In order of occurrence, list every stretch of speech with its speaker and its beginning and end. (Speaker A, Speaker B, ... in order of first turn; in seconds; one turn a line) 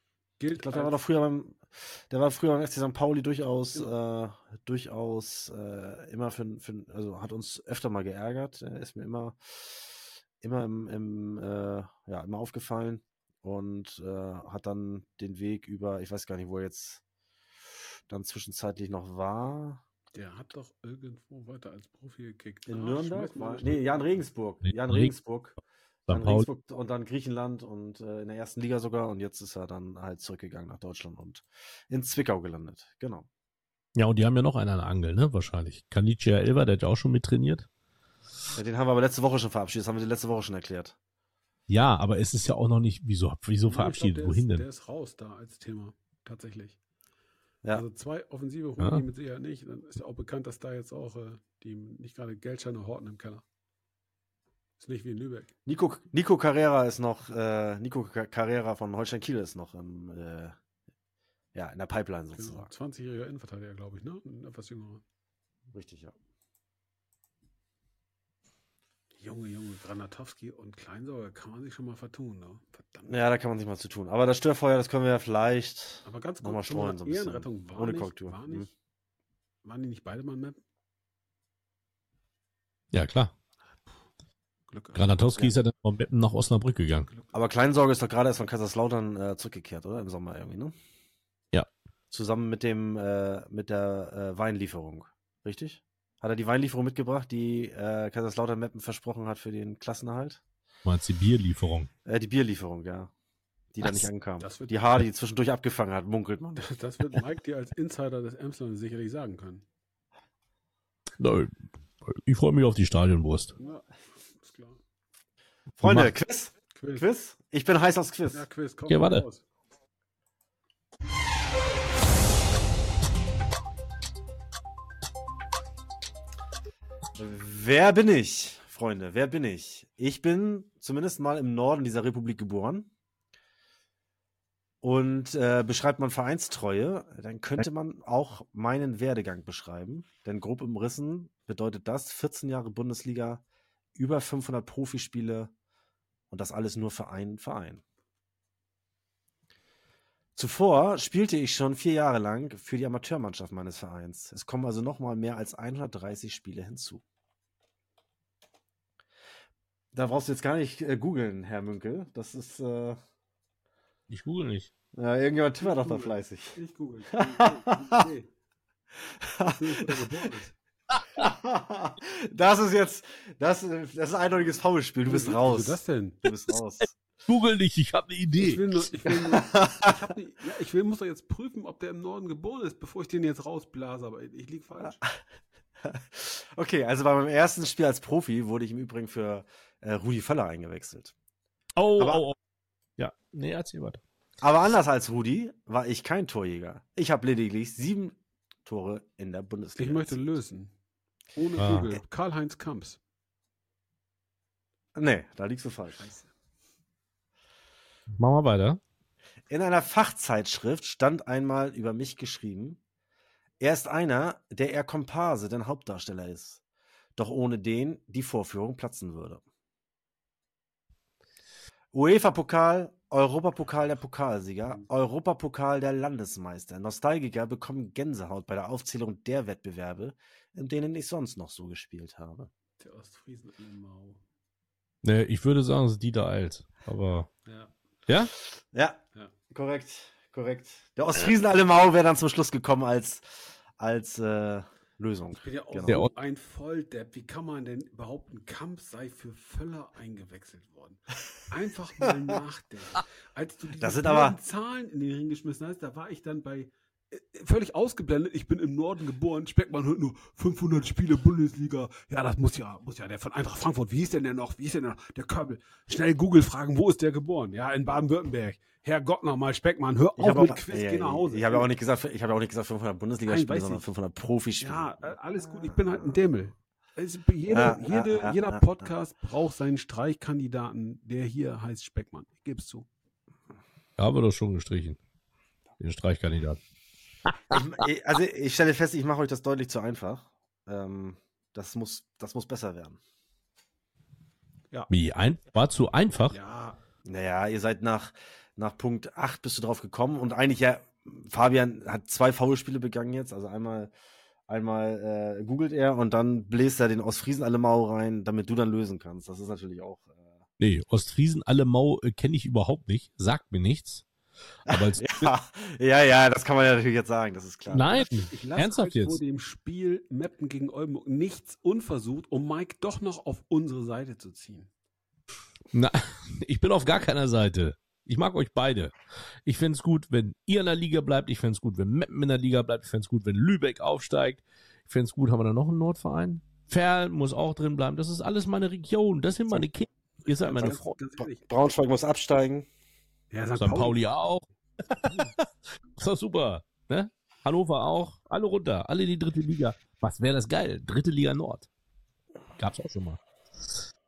Speaker A: 0.4-1.0
Speaker B: 0.5-17.0
Speaker B: 18.1-19.8
Speaker A: 20.1-23.8
Speaker B: 22.7-25.6
Speaker C: 24.6-25.2
Speaker C: 26.1-26.5
Speaker B: 26.1-33.3
Speaker C: 34.0-37.7
Speaker B: 38.5-41.0
Speaker C: 41.7-44.6
Speaker A: 43.7-46.8
Speaker A: 47.7-53.4
Speaker A: 54.8-55.5
Speaker B: 55.7-60.6
Speaker B: 61.5-62.7
Speaker A: 62.4-65.0
Speaker B: 65.7-66.1
Speaker A: 69.2-73.2
Speaker B: 73.1-78.7
Speaker A: 76.0-78.7
Speaker A: 79.6-80.6
Speaker C: 82.9-83.3
Speaker A: 84.7-85.1
Speaker C: 84.9-87.1
Speaker B: 87.3-90.8
Speaker B: 92.1-100.4
Speaker C: 100.8-101.9
Speaker B: 102.0-103.1
Speaker B: 103.7-106.7
Speaker C: 103.8-104.1
Speaker A: 104.4-104.8
Speaker A: 106.6-109.7
Speaker C: 111.2-111.5
Speaker C: 112.0-113.5
Speaker A: 113.6-114.8
Speaker B: 115.8-118.4
Speaker C: 115.8-116.1
Speaker A: 116.7-117.1
Speaker A: 118.3-119.4
Speaker C: 118.9-119.2
Speaker B: 127.2-132.9
Speaker B: 134.8-143.4
Speaker B: 144.0-145.5
Speaker B: 146.3-147.8
Speaker B: 150.4-157.0
Speaker B: 159.9-163.0
Speaker C: 164.1-164.7
Speaker B: 164.9-166.6
Speaker A: 165.6-168.3
Speaker B: 167.1-168.1
Speaker B: 169.2-170.3
Speaker A: 169.4-170.5
Speaker B: 171.2-176.9
Speaker A: 175.1-176.2
Speaker C: 177.3-178.6
Speaker A: 178.4-185.0
Speaker B: 179.3-180.1
Speaker B: 185.8-191.1
Speaker C: 191.8-192.3
Speaker B: 192.0-192.2
Speaker C: 193.0-194.0
Speaker B: 194.4-200.2
Speaker A: 199.8-200.7
Speaker A: 201.3-203.0
Speaker C: 201.6-201.9
Speaker B: 204.9-206.0
Speaker A: 205.9-206.3
Speaker C: 208.2-208.8
Speaker B: 209.5-212.8
Speaker B: 213.6-216.6
Speaker B: 217.2-219.4
Speaker B: 221.9-232.5
Speaker A: 232.8-234.2
Speaker C: 235.0-237.3
Speaker A: 237.5-237.7
Speaker B: 238.6-246.0
Speaker A: 245.4-271.7
Speaker B: 253.8-254.4
Speaker B: 270.2-276.1
Speaker A: 273.3-273.9
Speaker A: 274.6-282.9
Speaker B: 277.5-278.9
Speaker C: 284.0-285.0
Speaker C: 285.8-286.6
Speaker C: 287.3-287.6
Speaker B: 287.5-293.0
Speaker C: 294.9-296.4
Speaker A: 296.3-296.8
Speaker B: 297.1-303.9
Speaker B: 304.5-310.4
Speaker C: 310.6-314.1
Speaker C: 314.7-315.3
Speaker B: 314.7-318.1
Speaker C: 317.7-319.2
Speaker A: 318.1-324.7
Speaker C: 325.7-328.9
Speaker C: 329.5-341.0
Speaker A: 340.3-341.4
Speaker B: 340.6-342.7
Speaker A: 343.3-344.0
Speaker C: 343.6-345.3
Speaker C: 346.0-351.7
Speaker C: 352.6-353.2